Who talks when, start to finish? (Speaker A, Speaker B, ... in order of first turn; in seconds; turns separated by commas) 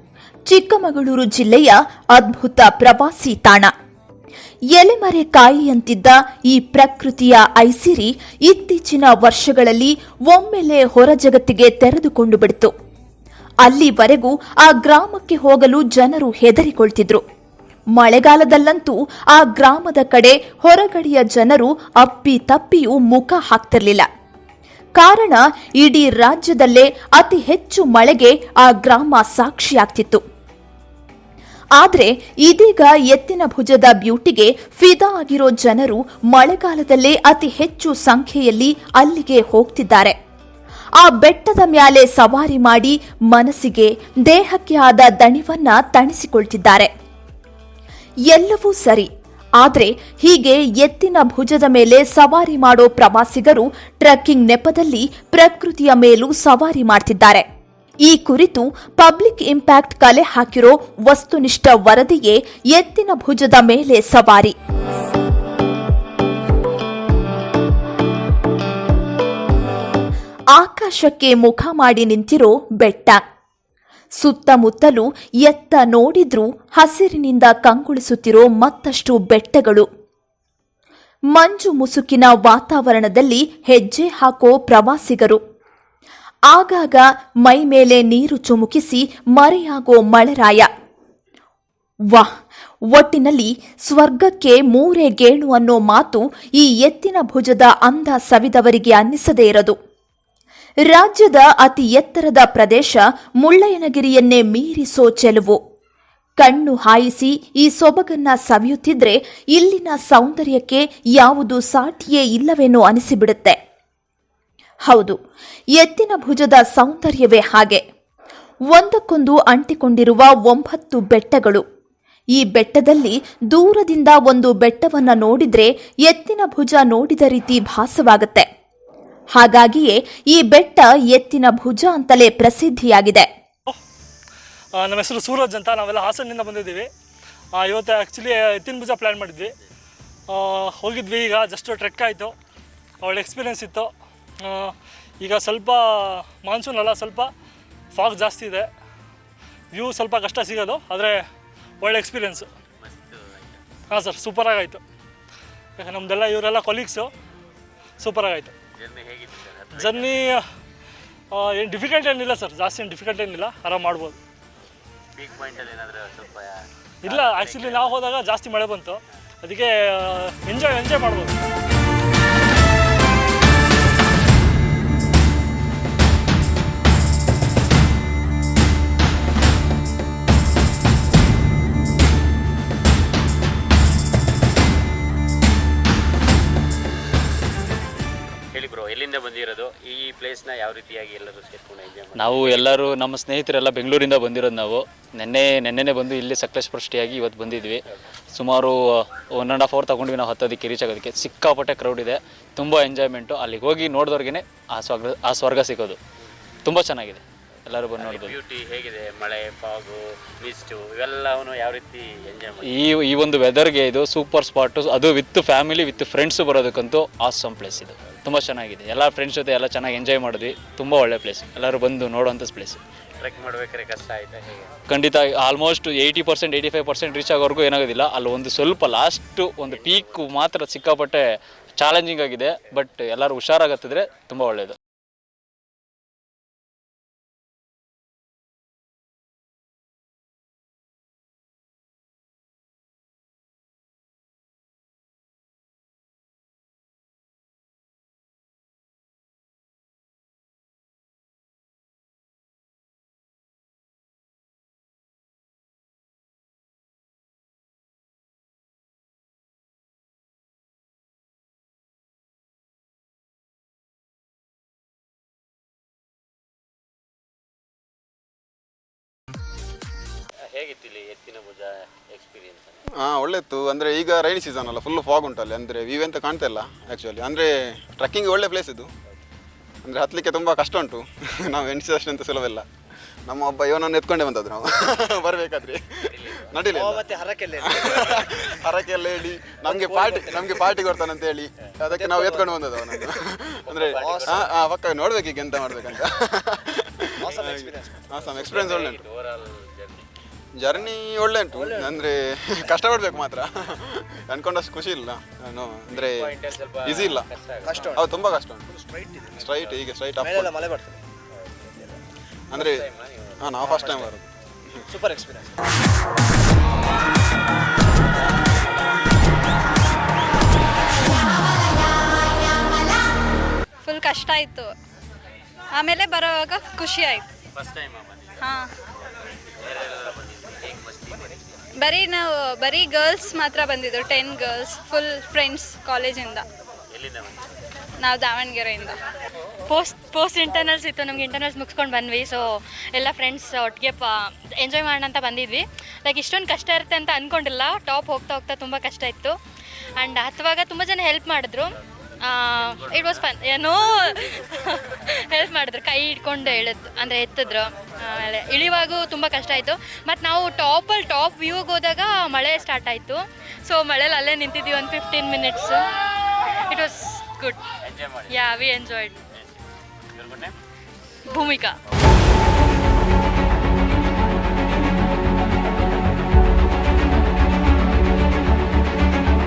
Speaker A: 0.5-3.7, Speaker A: 4.8-12.7, Speaker A: 13.6-17.2, Speaker A: 17.9-24.1, Speaker A: 25.0-30.2, Speaker A: 31.8-40.2, Speaker A: 41.0-46.9, Speaker A: 48.3-57.5, Speaker A: 58.0-64.5, Speaker A: 70.5-73.2, Speaker A: 74.2-79.9, Speaker A: 81.3-85.4, Speaker A: 86.5-90.7, Speaker A: 92.9-99.8, Speaker A: 100.9-105.6, Speaker A: 106.4-113.6, Speaker A: 114.9-115.2, Speaker A: 115.8-117.8, Speaker A: 118.7-121.6, Speaker A: 122.4-128.5, Speaker A: 129.3-133.3, Speaker B: 134.8-136.9, Speaker B: 137.6-139.5, Speaker B: 140.3-142.3, Speaker B: 143.0-143.9, Speaker B: 144.4-147.3, Speaker B: 147.9-148.7, Speaker B: 149.7-151.2, Speaker B: 151.8-152.5, Speaker C: 152.8-153.6, Speaker B: 153.9-154.8, Speaker B: 155.8-157.1, Speaker B: 158.0-158.5, Speaker C: 158.8-160.1, Speaker B: 159.8-160.4, Speaker B: 161.3-164.2, Speaker C: 165.2-167.9, Speaker B: 167.1-171.3, Speaker C: 188.5-192.9, Speaker D: 192.2-197.8, Speaker D: 198.3-206.0, Speaker D: 206.7-208.4, Speaker C: 208.0-212.7, Speaker D: 212.6-222.8, Speaker C: 223.2-224.7, Speaker D: 224.9-231.3, Speaker C: 229.7-230.3, Speaker D: 231.8-234.8, Speaker C: 270.5-272.8, Speaker E: 272.9-278.9, Speaker E: 279.9-282.6, Speaker E: 283.3-287.1, Speaker C: 286.1-286.4, Speaker F: 286.8-288.2, Speaker E: 287.6-299.0, Speaker F: 289.7-290.5, Speaker C: 293.7-294.5, Speaker F: 297.4-297.7, Speaker C: 298.5-300.1, Speaker E: 300.6-307.3, Speaker C: 305.9-307.8, Speaker E: 307.9-308.6, Speaker E: 309.4-310.6, Speaker F: 310.2-311.0, Speaker E: 312.5-312.9, Speaker C: 312.5-313.5, Speaker E: 313.4-314.8, Speaker F: 314.9-315.4, Speaker G: 323.9-324.7, Speaker G: 325.8-327.3, Speaker C: 327.5-328.3, Speaker G: 328.4-328.7, Speaker C: 329.6-331.4, Speaker G: 331.8-336.4, Speaker C: 336.9-337.4, Speaker G: 338.0-339.0, Speaker H: 339.7-349.4, Speaker H: 350.0-365.8, Speaker H: 366.7-367.6, Speaker C: 367.8-368.4, Speaker H: 368.3-369.2, Speaker C: 370.1-370.5, Speaker H: 371.3-371.8